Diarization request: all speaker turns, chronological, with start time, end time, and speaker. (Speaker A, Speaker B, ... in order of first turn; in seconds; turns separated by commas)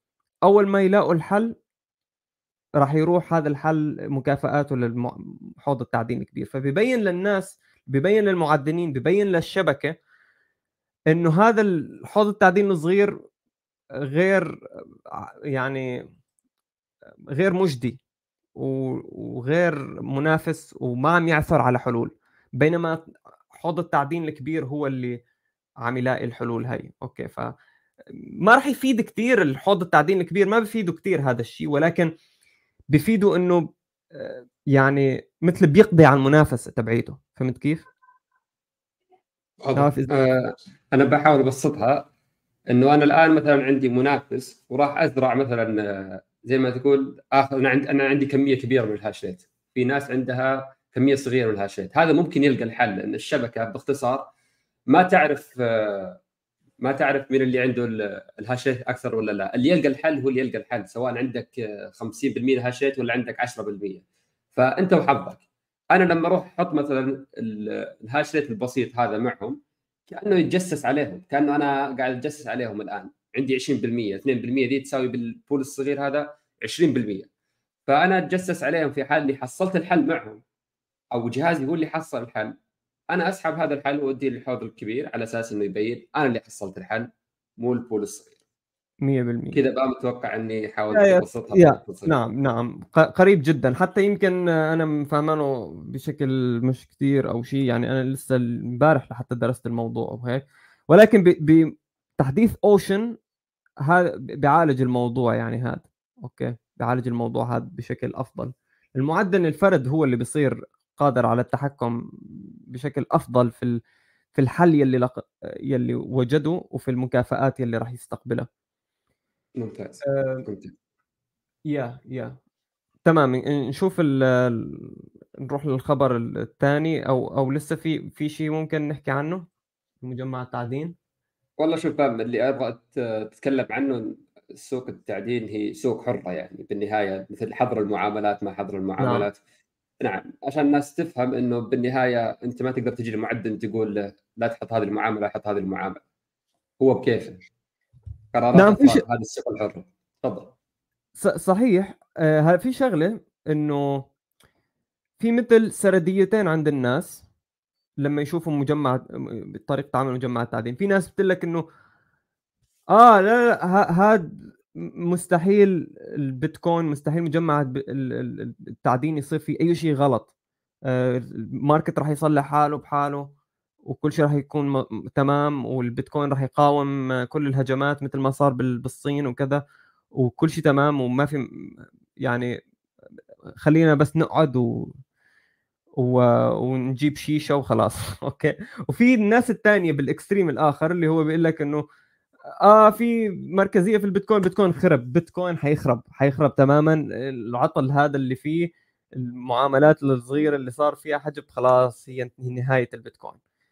Speaker A: 0.4-1.5, Speaker A: 2.8-9.9, Speaker A: 11.1-13.2, Speaker A: 14.1-14.5, Speaker A: 15.5-15.9, Speaker A: 17.3-18.0, Speaker A: 18.6-23.0, Speaker A: 23.5-25.2, Speaker A: 25.8-27.5, Speaker A: 28.4-32.1, Speaker A: 32.9-37.9, Speaker B: 39.6-42.0, Speaker A: 39.8-40.1, Speaker B: 42.7-54.3, Speaker B: 54.9-56.2, Speaker B: 56.8-64.0, Speaker B: 64.5-69.6, Speaker B: 70.1-77.3, Speaker B: 77.9-80.4, Speaker B: 81.1-82.5, Speaker B: 83.1-88.3, Speaker A: 89.0-89.6, Speaker B: 89.5-92.1, Speaker A: 90.9-103.2, Speaker A: 103.8-112.0, Speaker A: 112.7-113.8, Speaker A: 114.3-118.5, Speaker B: 119.5-120.7, Speaker A: 120.0-120.5, Speaker A: 121.7-122.4, Speaker A: 123.0-129.4, Speaker A: 130.0-130.9, Speaker B: 131.6-139.4, Speaker A: 139.0-139.3, Speaker B: 140.0-146.0, Speaker B: 146.8-147.4, Speaker B: 148.3-150.5, Speaker A: 148.6-149.0, Speaker A: 151.2-154.1, Speaker A: 155.2-157.2, Speaker A: 158.0-161.6, Speaker A: 162.9-170.3, Speaker A: 170.9-173.3, Speaker A: 173.8-179.6, Speaker A: 180.2-181.5, Speaker A: 182.2-182.6, Speaker A: 183.6-184.9, Speaker A: 186.0-191.8, Speaker A: 192.6-203.4